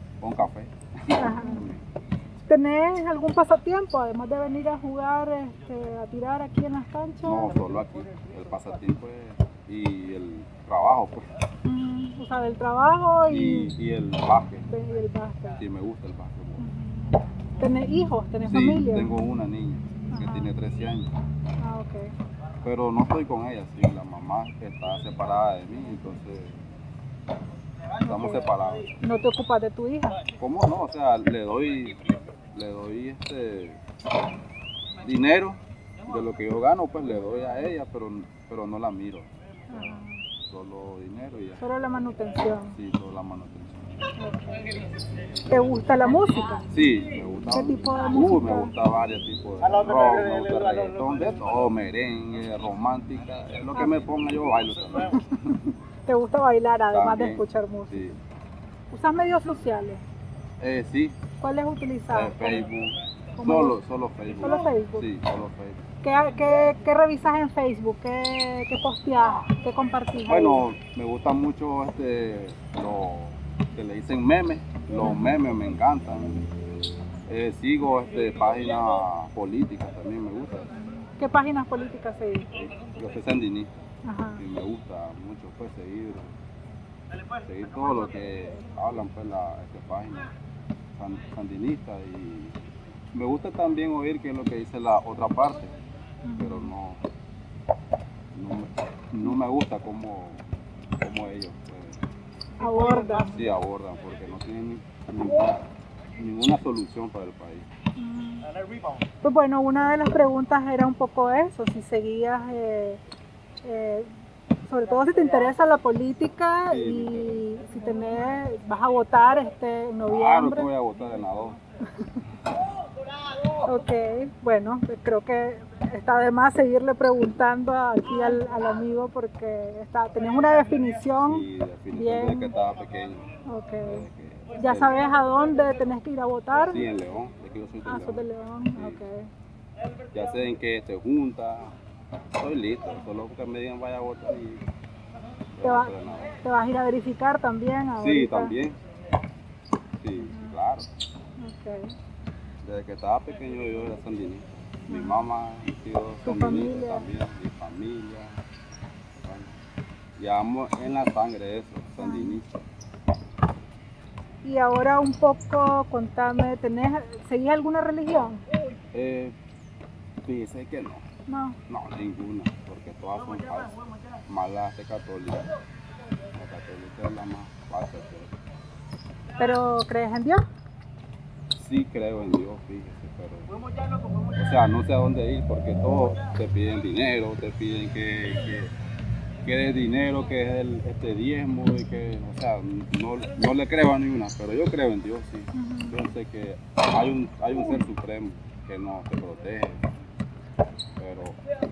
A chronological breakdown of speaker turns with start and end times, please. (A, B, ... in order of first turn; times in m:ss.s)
0:00.2-0:01.8 A
0:01.2-0:01.6 B
0:02.5-0:07.6 B
0:07.2-0:11.3 A
0:11.6-0:13.7 B
0:13.3-0:14.7 A
0:14.7-0:15.6 B
0:15.6-0:16.6 A
0:16.6-0:17.1 B
0:17.6-0:19.1 B
0:18.5-0:21.1 A
0:20.1-0:20.5 B
0:21.6-0:22.1 B
0:22.6-0:26.6 A
0:28.0-0:28.9 A
0:28.0-0:30.2 B
0:30.4-0:33.8 A
0:35.0-0:41.6 A
0:39.7-0:40.2 B
0:41.6-0:42.8 B
0:42.7-0:43.8 A
0:44.2-0:44.7 B
0:45.5-0:46.7 B
0:46.7-0:55.2 A
0:47.5-0:48.7 B
0:55.2-0:58.0 B
0:56.9-0:58.2 A
0:58.9-1:00.0 B
1:00.6-1:01.2 A
1:01.4-1:02.7 B
1:02.1-1:05.8 A
1:03.4-1:03.8 B
1:04.4-1:05.1 B
1:06.0-1:10.6 B
1:10.3-1:16.5 A
1:15.0-1:15.2 B
1:17.3-1:20.7 A
1:20.9-1:22.5 B
1:22.5-1:23.7 A
1:24.0-1:24.4 B
1:24.4-1:26.3 A
1:27.4-1:30.3 A
1:31.0-1:35.7 A
1:36.2-1:36.7 B
1:36.4-1:37.0 A
1:38.3-1:40.4 A
1:41.0-1:42.0 A
1:42.6-1:43.4 B
1:43.0-1:45.6 A
1:46.2-1:47.7 A
1:48.0-1:48.4 B
1:49.2-1:53.0 B
1:53.6-1:54.1 B
1:54.6-2:00.7 B
1:56.7-1:57.4 A
2:00.1-2:01.6 A
2:03.6-2:12.5 B
2:11.2-2:15.0 A
2:13.4-2:14.0 B
2:14.5-2:16.9 B
2:16.6-2:19.0 A
2:17.8-2:19.3 B
2:20.1-2:21.7 A
2:22.4-2:24.6 A
2:25.5-2:26.4 A
2:25.6-2:28.5 B
2:28.0-2:28.8 A
2:30.0-2:30.9 A
2:30.1-2:30.5 B
2:31.4-2:31.9 B
2:32.6-2:38.4 A
2:34.9-2:35.2 B
2:36.2-2:37.1 B
2:39.2-2:39.6 A
2:40.2-2:42.5 A
2:42.0-2:42.4 B
2:44.4-2:48.4 B
2:48.9-2:49.3 A
2:50.2-2:51.0 A
2:51.3-2:51.6 B
2:51.7-2:55.5 A
2:56.3-2:58.4 A
2:59.4-3:00.4 B
3:01.5-3:03.5 A
3:04.3-3:08.7 A
3:09.4-3:19.8 A
3:15.5-3:16.0 B
3:21.0-3:21.4 A